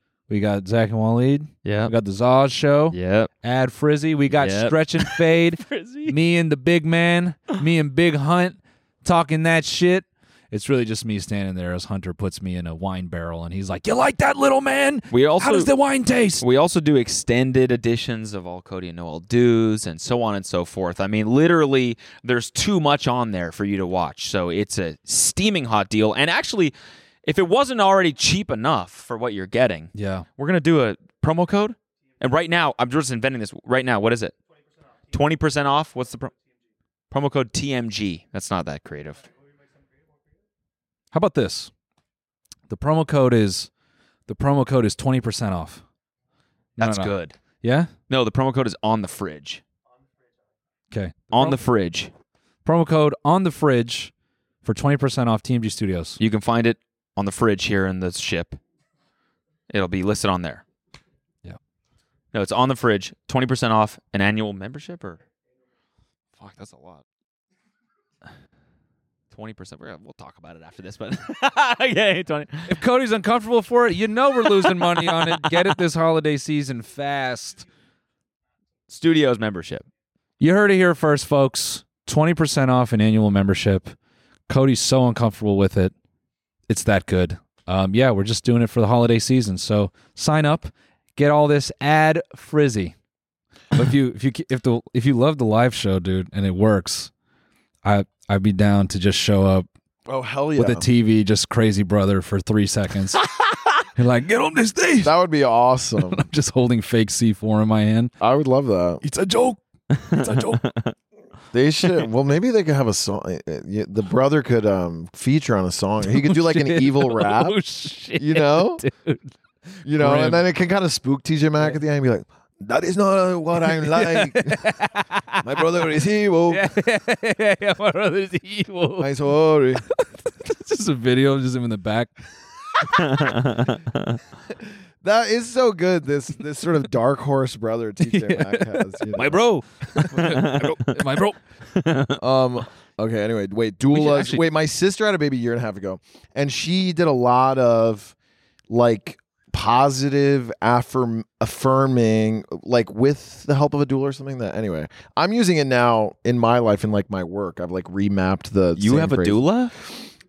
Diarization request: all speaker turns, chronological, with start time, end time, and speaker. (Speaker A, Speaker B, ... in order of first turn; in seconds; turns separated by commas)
Speaker A: 0.3-16.4, Speaker B: 1.6-1.9, Speaker B: 2.9-3.3, Speaker B: 4.3-6.2, Speaker B: 15.1-15.7, Speaker B: 16.4-26.7, Speaker B: 27.2-34.4, Speaker A: 29.9-30.3, Speaker B: 35.1-36.3, Speaker B: 37.1-39.3, Speaker A: 41.1-41.7, Speaker A: 42.7-43.7, Speaker A: 44.3-45.8, Speaker A: 46.8-47.9, Speaker B: 46.8-47.4, Speaker B: 48.1-49.6, Speaker A: 50.9-51.6, Speaker B: 51.3-52.1, Speaker A: 52.6-54.1, Speaker A: 54.6-56.2, Speaker B: 56.2-58.6, Speaker B: 59.7-60.6, Speaker B: 62.3-65.2, Speaker B: 66.4-67.0, Speaker B: 69.3-72.8, Speaker A: 72.7-77.6, Speaker B: 74.4-75.8, Speaker B: 78.9-79.9, Speaker A: 80.4-83.9, Speaker A: 84.5-85.9, Speaker A: 86.7-93.0, Speaker A: 93.7-97.1, Speaker A: 97.8-99.7, Speaker C: 100.1-100.9, Speaker A: 100.5-103.2, Speaker A: 104.0-105.1, Speaker C: 105.0-106.2, Speaker A: 106.1-108.1, Speaker C: 108.2-109.0, Speaker A: 109.0-110.6, Speaker B: 109.9-111.0, Speaker C: 111.5-117.6, Speaker A: 116.1-120.5, Speaker C: 118.2-118.8, Speaker C: 119.8-124.7, Speaker A: 123.7-125.8, Speaker C: 125.4-126.6, Speaker A: 126.5-129.1, Speaker C: 129.0-129.8, Speaker A: 130.0-132.1, Speaker B: 132.9-134.2, Speaker C: 135.0-139.4, Speaker A: 138.0-138.9, Speaker B: 139.2-142.2, Speaker A: 140.0-141.4, Speaker C: 142.2-148.2, Speaker A: 143.9-144.4, Speaker C: 148.7-159.9, Speaker B: 158.8-159.7